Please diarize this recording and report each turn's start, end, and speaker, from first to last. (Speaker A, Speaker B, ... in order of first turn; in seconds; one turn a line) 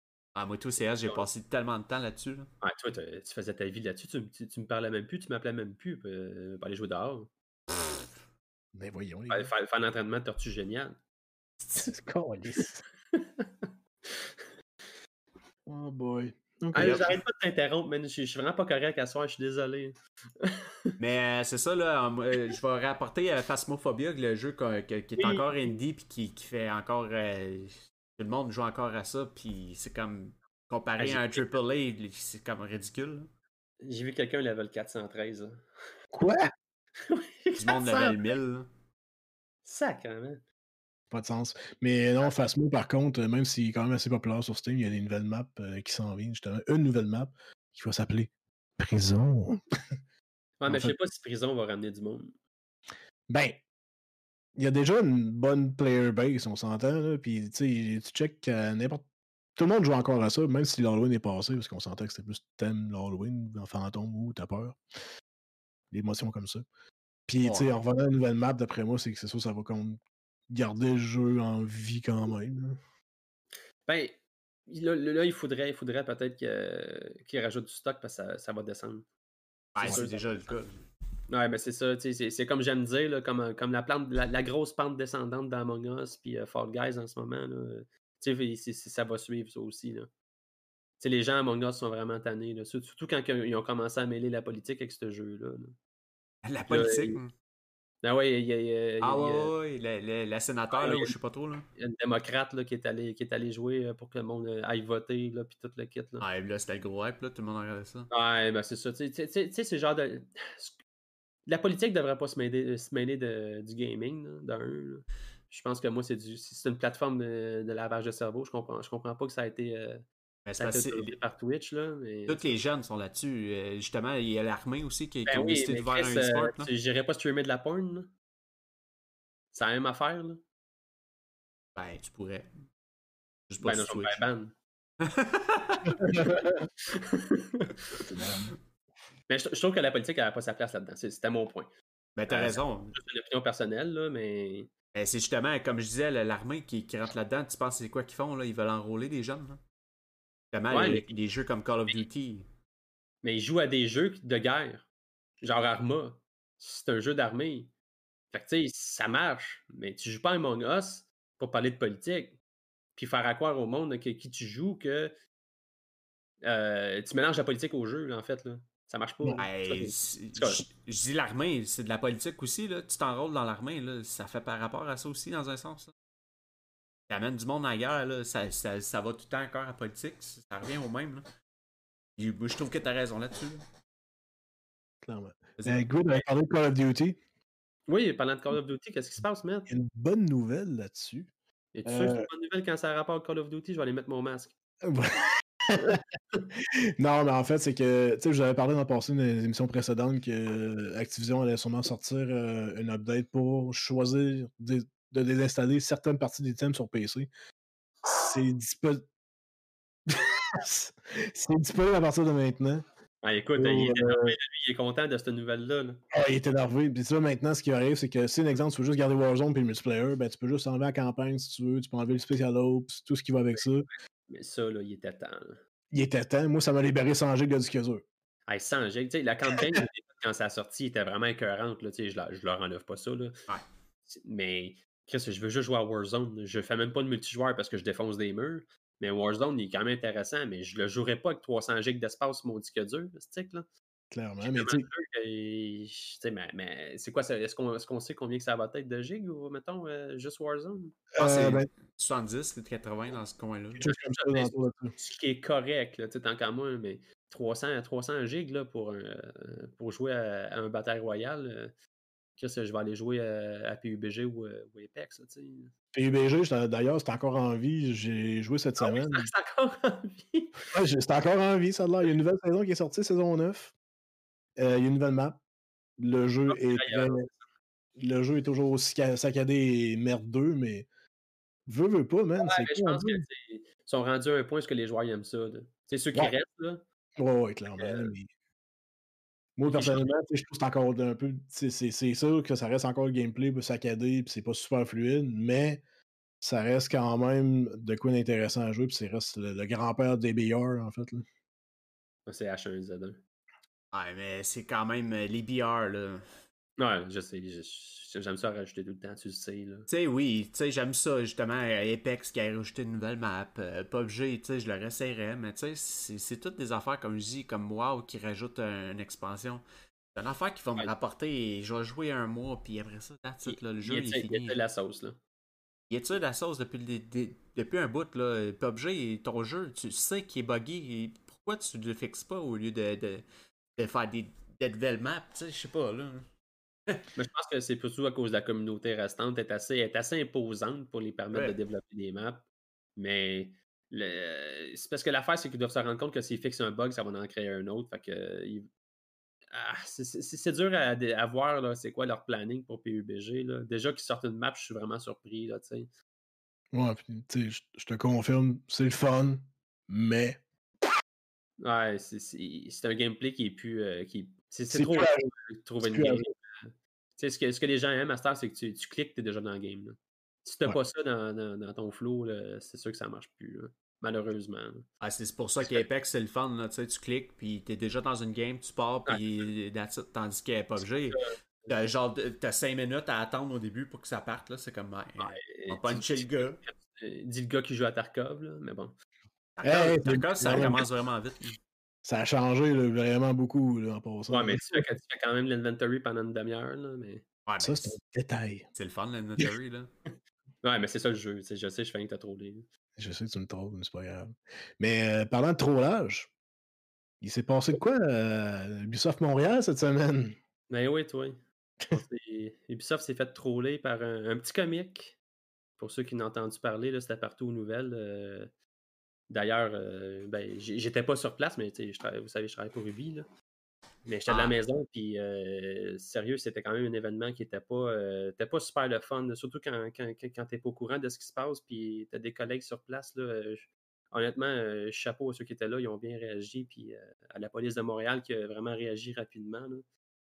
Speaker A: 0.3-2.5
Speaker B: 0.8-1.3
Speaker B: 2.6-7.3
Speaker C: 8.7-9.5
Speaker B: 9.3-11.0
Speaker C: 11.8-12.8
Speaker B: 13.1-14.2
Speaker C: 15.7-17.1
Speaker A: 16.7-17.2
Speaker B: 16.7-20.9
Speaker A: 21.0-33.3
Speaker B: 25.2-25.8
Speaker B: 31.0-31.6
Speaker B: 33.8-35.6
Speaker C: 36.1-36.5
Speaker B: 37.0-38.4
Speaker A: 37.6-38.7
Speaker B: 39.6-40.4
Speaker C: 41.1-49.6
Speaker B: 50.6-52.3
Speaker C: 50.7-50.9
Speaker C: 53.3-53.6
Speaker C: 54.5-59.0
Speaker C: 59.6-64.8
Speaker C: 65.9-66.6
Speaker C: 67.3-72.8
Speaker B: 73.9-79.1
Speaker A: 79.7-80.8
Speaker B: 79.8-80.4
Speaker B: 81.3-90.1
Speaker B: 91.0-95.8
Speaker A: 96.4-97.3
Speaker B: 96.7-97.2
Speaker B: 98.0-99.5
Speaker A: 99.0-101.6
Speaker B: 100.7-101.1
Speaker B: 101.8-106.2
Speaker A: 106.2-108.1
Speaker B: 108.1-110.8
Speaker B: 111.5-120.0
Speaker A: 120.4-121.1
Speaker B: 120.6-122.5
Speaker A: 122.3-126.7
Speaker B: 125.3-128.1
Speaker B: 129.5-130.4
Speaker A: 131.8-132.5
Speaker A: 133.5-134.2
Speaker B: 133.6-134.5
Speaker A: 135.0-136.2
Speaker C: 136.0-136.6
Speaker B: 136.8-138.0
Speaker C: 138.0-138.5
Speaker B: 139.3-141.7
Speaker A: 142.2-142.9
Speaker B: 142.3-144.7
Speaker A: 144.9-149.6
Speaker A: 150.5-152.4
Speaker B: 150.7-151.1
Speaker B: 153.2-154.9
Speaker B: 155.4-157.7
Speaker B: 158.3-162.4
Speaker B: 162.9-165.1
Speaker B: 166.4-170.6
Speaker A: 169.4-175.9
Speaker A: 177.1-181.2
Speaker A: 182.2-183.6
Speaker C: 185.0-187.2
Speaker A: 185.6-185.9
Speaker B: 187.9-189.7
Speaker C: 189.7-191.3
Speaker B: 191.7-194.5
Speaker C: 191.8-192.3
Speaker C: 194.8-207.3
Speaker C: 208.1-209.1
Speaker C: 210.1-212.8
Speaker B: 213.2-216.0
Speaker C: 213.6-214.3
Speaker C: 216.1-223.9
Speaker B: 224.3-225.6
Speaker C: 225.9-228.0
Speaker B: 228.5-233.4
Speaker B: 234.1-243.7
Speaker C: 244.1-244.8
Speaker B: 244.4-251.1
Speaker C: 251.1-251.7
Speaker A: 251.2-253.9
Speaker C: 253.8-254.9
Speaker B: 253.9-261.7
Speaker B: 262.4-265.7
Speaker C: 265.9-269.3
Speaker B: 268.8-270.7
Speaker C: 270.7-273.7
Speaker C: 274.6-275.4
Speaker C: 276.0-277.3
Speaker B: 276.5-277.4
Speaker C: 278.0-280.9
Speaker C: 281.7-283.2
Speaker B: 282.4-286.8
Speaker C: 287.2-288.3
Speaker B: 287.8-288.1
Speaker C: 289.6-295.8
Speaker B: 289.7-290.1
Speaker C: 296.4-301.2
Speaker B: 302.2-303.2
Speaker A: 303.9-306.2
Speaker B: 306.8-309.9
Speaker A: 309.9-319.6
Speaker A: 320.1-324.6
Speaker B: 323.4-325.2
Speaker A: 325.9-333.2
Speaker A: 333.8-336.2
Speaker B: 337.1-348.7
Speaker B: 349.5-355.9
Speaker C: 356.7-360.4
Speaker B: 361.6-374.9
Speaker C: 364.7-365.3
Speaker C: 365.8-366.2
Speaker A: 375.0-386.6
Speaker B: 380.8-381.8
Speaker B: 385.2-388.9
Speaker A: 389.6-391.6
Speaker C: 389.6-390.8
Speaker B: 390.5-390.7
Speaker C: 392.0-394.8
Speaker B: 394.3-397.2
Speaker A: 397.4-397.9
Speaker C: 397.6-398.7
Speaker A: 398.7-399.9
Speaker B: 400.6-402.7
Speaker C: 403.0-406.3
Speaker C: 407.2-410.4
Speaker B: 410.7-415.2
Speaker B: 415.8-418.5
Speaker B: 419.3-423.2
Speaker B: 424.1-439.8
Speaker A: 424.3-424.6